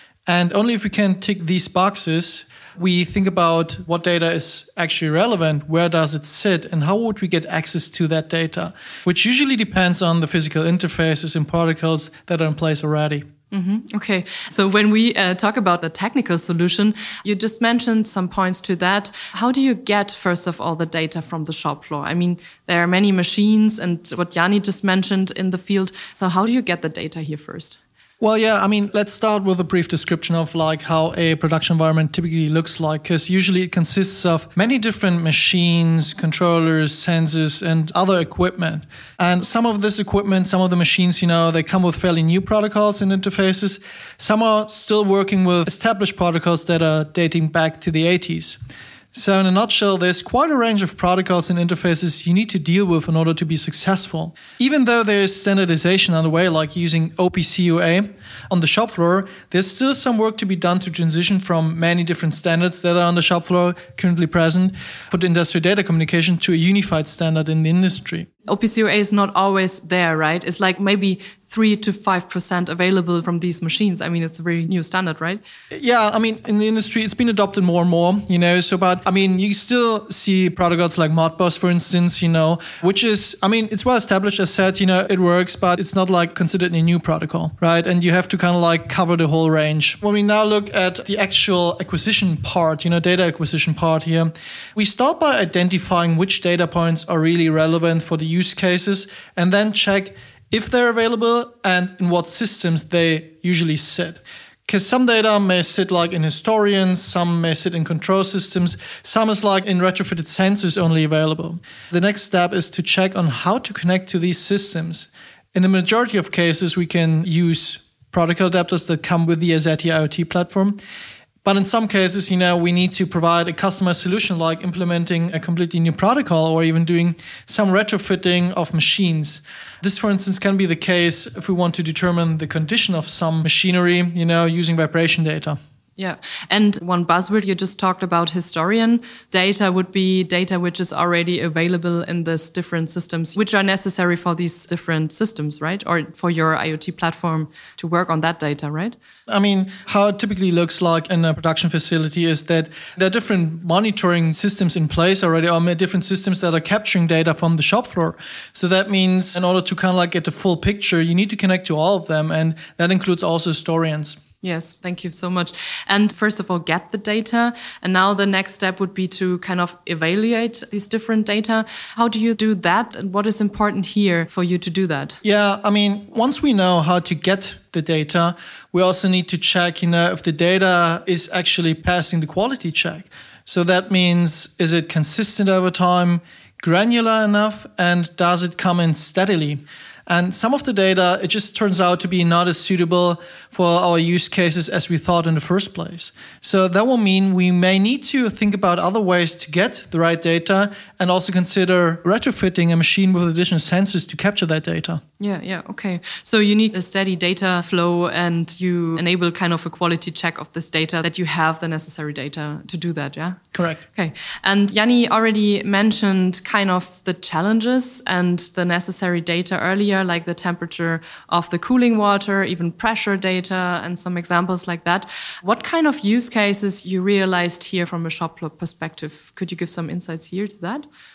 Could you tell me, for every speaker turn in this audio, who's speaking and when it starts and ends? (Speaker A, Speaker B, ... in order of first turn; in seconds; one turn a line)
Speaker A: 0.3-13.2
Speaker B: 13.5-27.8
Speaker A: 28.2-48.6
Speaker A: 49.1-68.3
Speaker B: 68.5-75.4
Speaker A: 75.7-120.8
Speaker A: 121.5-135.6
Speaker B: 136.0-149.0
Speaker A: 149.3-164.2
Speaker B: 164.4-175.2
Speaker A: 175.2-205.0
Speaker B: 205.2-230.8
Speaker A: 213.5-213.8